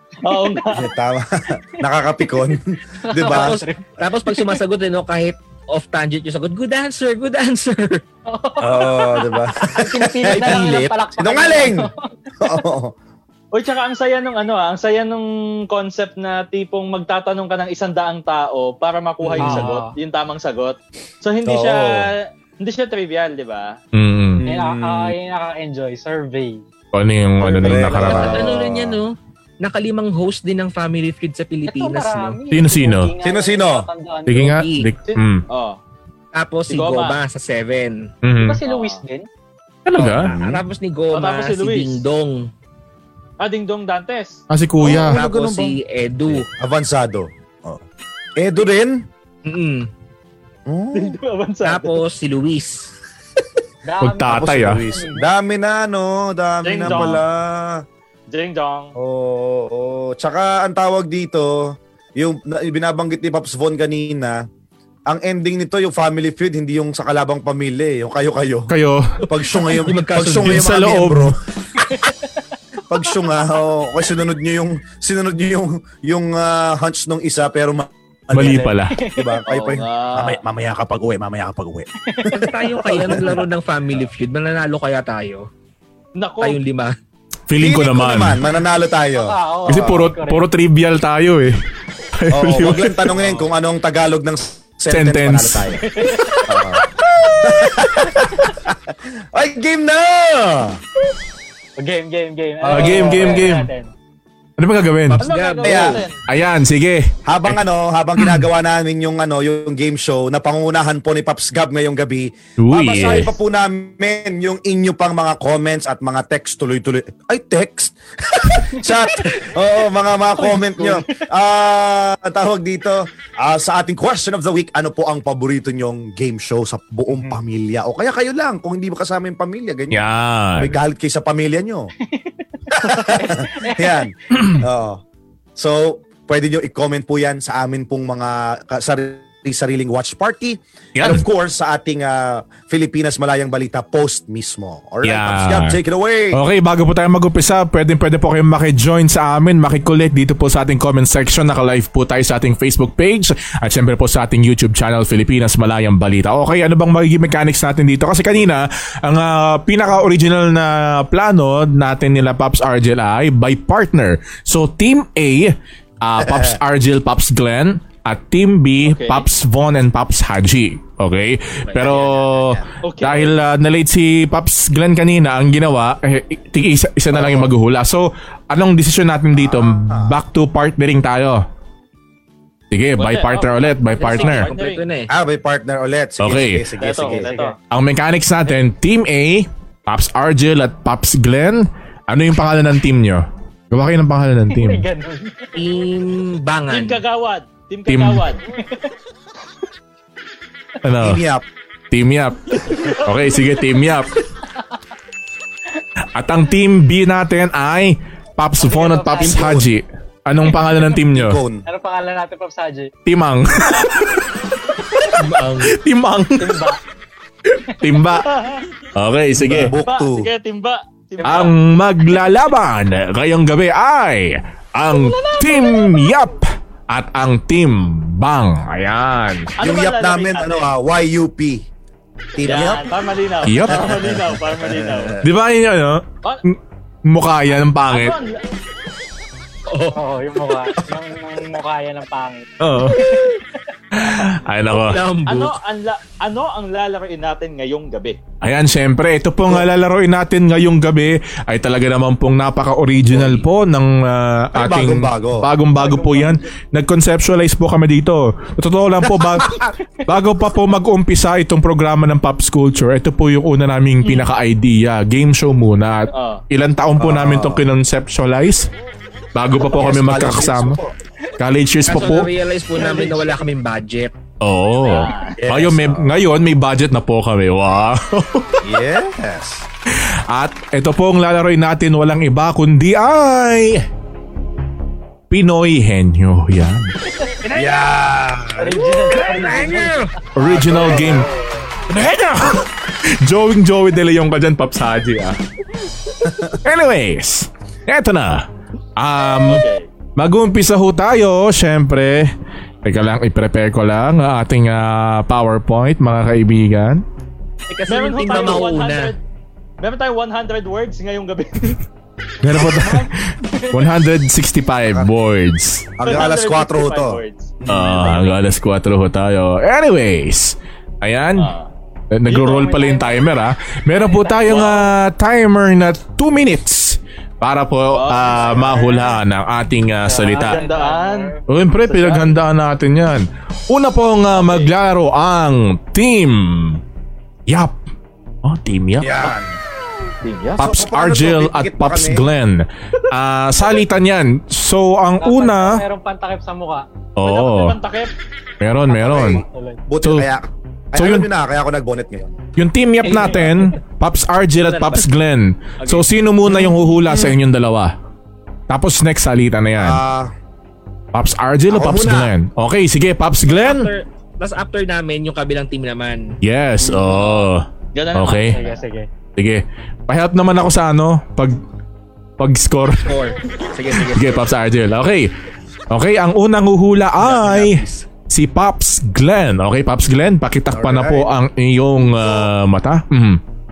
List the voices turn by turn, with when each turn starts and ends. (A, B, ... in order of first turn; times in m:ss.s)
0:00.2-0:00.9 A
0:00.7-0:03.6 B
0:03.0-0:03.9 C
0:03.2-0:08.0 D
0:08.3-0:12.6 C
0:08.6-0:11.9 B
0:10.2-0:11.0 D
0:12.4-0:12.9 B
0:13.5-0:23.8 A
0:19.2-0:19.7 B
0:19.4-0:19.9 C
0:21.4-0:22.1 B
0:23.9-0:24.4 E
0:24.4-0:25.1 B
0:24.4-0:26.6 C
0:26.9-0:28.6 E
0:27.4-0:28.9 B
0:28.0-0:32.4 D
0:31.6-0:34.6 C
0:32.5-0:33.1 E
0:33.2-0:33.9 B
0:34.3-0:35.4 E
0:34.3-0:34.9 D
0:35.1-0:35.8 A
0:36.3-0:38.1 D
0:36.7-0:37.2 A
0:38.2-0:38.6 E
0:38.4-0:39.3 C
0:38.6-0:39.0 A
0:39.8-0:40.3 E
0:39.9-0:42.5 D
0:40.0-0:40.6 B
0:41.1-0:42.0 A
0:43.4-0:44.4 A
0:44.5-0:45.2 E
0:44.8-0:45.8 B
0:44.8-0:46.5 D
0:46.3-0:47.8 B
0:48.4-0:49.0 B
0:49.4-0:49.9 D
0:50.7-0:51.2 B
0:50.9-0:52.0 A
0:51.6-0:52.9 D
0:53.8-0:55.3 C
0:54.0-0:54.9 E
0:54.3-0:57.8 B
0:56.6-0:57.2 A
0:58.3-0:58.9 A
0:59.0-1:04.4 B
1:05.1-1:08.7 B
1:08.7-1:09.2 E
1:09.2-1:11.4 B
1:09.5-1:10.6 D
1:10.3-1:11.4 E
1:11.8-1:12.2 C
1:12.9-1:23.4 B
1:18.3-1:19.0 E
1:18.4-1:19.4 C
1:19.5-1:20.4 A
1:22.1-1:23.2 C
1:22.3-1:25.5 D
1:26.2-1:26.6 A
1:26.4-1:27.0 D
1:27.5-1:28.4 E
1:27.6-1:30.0 B
1:29.2-1:30.4 C
1:29.7-1:31.6 E
1:32.2-1:33.3 E
1:32.3-1:35.8 B
1:34.9-1:35.7 E
1:35.8-1:36.6 C
1:36.5-1:36.9 B
1:37.4-1:40.8 B
1:38.1-1:38.5 C
1:41.8-1:43.9 C
1:42.6-1:43.7 E
1:44.6-1:45.2 E
1:45.1-1:46.0 D
1:45.2-1:46.2 A
1:45.6-1:46.0 B
1:46.3-1:47.6 E
1:47.2-2:10.0 B
1:48.2-1:48.4 E
1:52.6-1:53.4 E
2:00.4-2:01.2 C
2:09.9-2:10.8 E
2:10.6-2:11.9 B
2:12.0-2:14.1 C
2:12.7-2:15.0 B
2:15.6-2:26.4 B
2:21.0-2:21.2 E
2:25.0-2:25.8 E
2:26.3-3:01.4 E
2:46.2-2:46.6 B
2:48.8-2:49.2 A
2:51.7-2:52.1 D
2:51.8-2:52.6 B
2:52.8-2:53.3 A
2:57.1-2:57.5 B
2:59.3-3:00.2 B
3:02.7-3:04.5 E
3:03.0-3:04.8 A
3:04.0-3:05.1 D
3:05.1-3:07.3 B
3:06.2-3:06.7 E
3:06.8-3:07.5 A
3:07.0-3:07.5 C
3:07.7-3:14.8 E
3:14.5-3:15.5 C
3:15.5-3:17.0 D
3:16.7-3:18.4 A
3:17.9-3:18.2 E
3:18.6-3:18.9 C
3:20.8-3:21.2 E
3:21.0-3:21.4 B
3:21.9-3:24.1 E
3:22.6-3:23.4 A
3:26.1-3:31.4 E
3:28.6-3:29.6 C
3:29.2-3:29.7 B
3:31.1-3:31.6 B
3:31.6-3:32.9 C
3:33.0-3:34.3 E
3:35.0-3:36.7 E
3:35.1-3:35.7 D
3:36.4-3:36.8 C
3:37.5-3:38.3 E
3:38.2-3:38.6 A
3:38.9-3:39.8 E
3:39.3-3:40.3 B
3:39.8-3:41.6 A
3:41.2-3:41.5 C
3:41.2-3:49.6 E
3:45.0-3:46.1 C
3:49.6-3:50.7 A
3:49.6-3:51.6 B
3:52.4-3:52.9 B
3:52.4-3:55.2 A
3:53.4-3:54.0 E
3:53.7-3:55.3 B
3:55.2-3:58.2 E
3:57.9-3:58.4 A
3:59.7-4:00.0 D
3:59.9-4:03.4 C
4:02.6-4:03.2 E
4:03.9-4:05.0 E
4:04.8-4:05.6 D
4:05.2-4:08.2 A
4:08.4-4:28.7 E
4:13.1-4:13.4 B
4:14.5-4:15.5 B
4:15.8-4:16.4 C
4:26.1-4:26.4 A
4:27.0-4:27.7 B
4:29.3-4:30.8 E
4:29.7-4:30.9 B
4:31.4-4:32.3 E
4:31.8-4:34.1 D
4:34.4-4:38.6 E
4:34.8-4:35.4 A
4:35.4-4:36.2 B
4:38.6-4:39.6 B
4:39.9-4:43.8 E
4:45.3-4:46.9 E
4:47.5-4:47.9 D
4:47.5-4:48.8 B
4:48.6-4:50.1 C
4:48.9-4:50.1 D
4:50.3-4:51.3 E
4:50.4-4:51.3 B
4:51.9-4:55.4 E
4:56.2-4:56.6 B
4:56.6-4:59.6 E
4:59.4-4:59.9 A
5:00.2-5:02.3 E
5:02.8-5:07.0 E
5:07.7-5:09.1 D
5:07.9-5:09.2 A
5:09.8-5:11.8 A
5:12.4-5:15.9 E
5:12.6-5:13.9 C
5:16.0-5:18.2 B
5:16.0-5:18.4 A
5:17.7-5:21.5 E
5:21.4-5:21.7 A
5:22.1-5:30.6 E
5:22.3-5:23.3 C
5:23.9-5:24.8 C
5:24.4-5:24.9 A
5:27.9-5:28.7 A
5:28.3-5:29.2 B
5:30.0-5:31.4 C
5:30.4-5:32.4 A
5:31.5-5:36.8 E
5:34.3-5:34.7 A
5:37.5-5:37.7 E
5:38.4-5:39.3 E
5:39.0-5:39.5 B
5:40.2-5:40.6 A
5:40.6-5:42.3 B
5:40.6-5:45.8 E
5:45.2-5:46.8 C
5:47.2-5:47.8 E
5:47.2-5:48.1 A
5:48.6-5:49.4 E
5:48.9-5:49.8 C
5:49.0-5:52.4 B
5:50.0-5:50.3 E
5:51.0-5:51.3 E
5:52.6-5:57.9 E
5:53.1-5:53.4 D
5:54.6-5:55.1 D
5:55.8-5:56.0 D
5:56.6-5:57.3 B
5:58.7-6:00.0 E
5:59.8-6:00.3 B
6:01.1-6:03.9 E
6:01.7-6:02.3 B
6:03.5-6:06.4 D
6:06.4-6:08.6 E
6:07.9-6:08.8 A
6:08.4-6:09.1 C
6:09.4-6:11.6 E
6:12.4-6:13.1 E
6:13.0-6:14.5 D
6:14.0-6:15.3 E
6:15.9-6:23.4 E
6:17.2-6:17.8 D
6:17.3-6:17.9 B
6:20.7-6:21.4 B
6:22.2-6:22.5 B